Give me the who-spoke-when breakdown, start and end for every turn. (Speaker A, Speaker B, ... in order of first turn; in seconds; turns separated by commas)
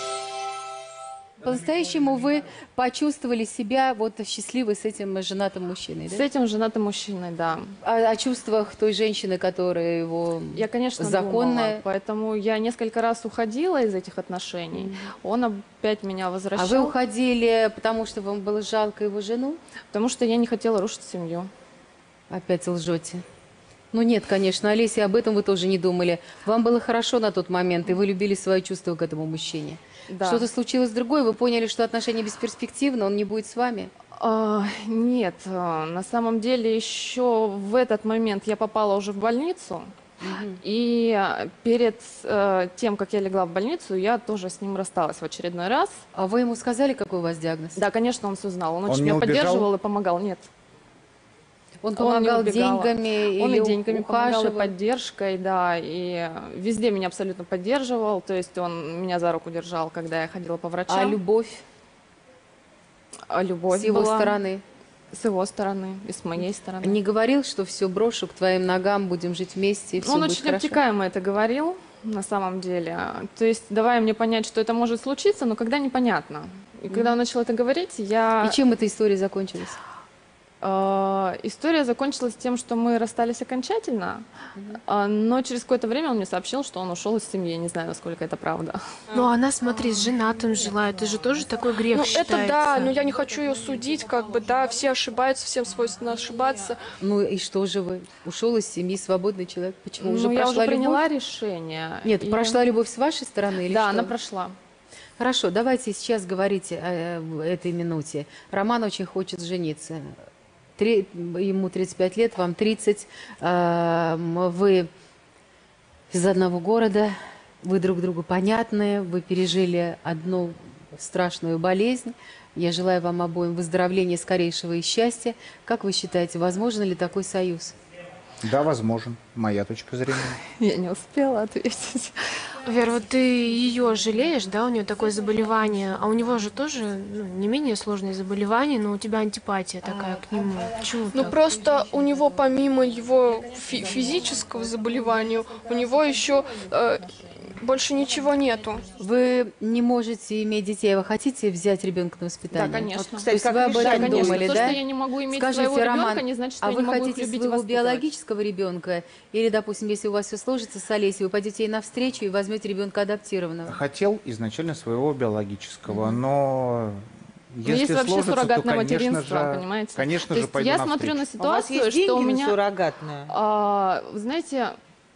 Speaker A: 1.4-6.2, Speaker B: 6.1-7.8, Speaker A: 7.8-11.8, Speaker B: 10.6-16.9, Speaker A: 14.7-15.1, Speaker A: 16.6-19.6, Speaker B: 19.9-21.5, Speaker A: 22.3-23.2, Speaker A: 23.9-33.9, Speaker B: 30.1-30.5, Speaker B: 34.2-39.9, Speaker A: 40.2-40.6, Speaker B: 40.6-46.0, Speaker A: 46.2-47.8, Speaker B: 47.8-50.5, Speaker C: 48.9-49.7, Speaker A: 51.8-54.7, Speaker B: 52.0-61.2, Speaker A: 60.9-61.6, Speaker B: 63.3-64.4, Speaker A: 63.7-64.6, Speaker B: 65.1-67.0, Speaker A: 66.8-70.8, Speaker B: 70.0-78.6, Speaker A: 76.9-77.2, Speaker A: 78.4-79.8, Speaker B: 80.6-84.2, Speaker B: 84.9-88.8, Speaker D: 89.1-93.0, Speaker E: 91.9-96.8, Speaker A: 97.0-101.0, Speaker B: 100.0-102.6, Speaker A: 102.0-104.1, Speaker B: 103.7-104.6, Speaker A: 105.2-110.2, Speaker A: 110.8-114.9, Speaker A: 116.1-127.8, Speaker C: 128.4-130.4, Speaker B: 130.6-132.3, Speaker D: 132.7-141.4, Speaker E: 141.1-148.9, Speaker A: 149.0-154.8, Speaker B: 152.5-158.0, Speaker F: 153.1-154.8, Speaker A: 155.3-163.8, Speaker C: 163.7-171.3, Speaker B: 167.7-172.6, Speaker F: 171.4-173.3, Speaker B: 173.3-174.8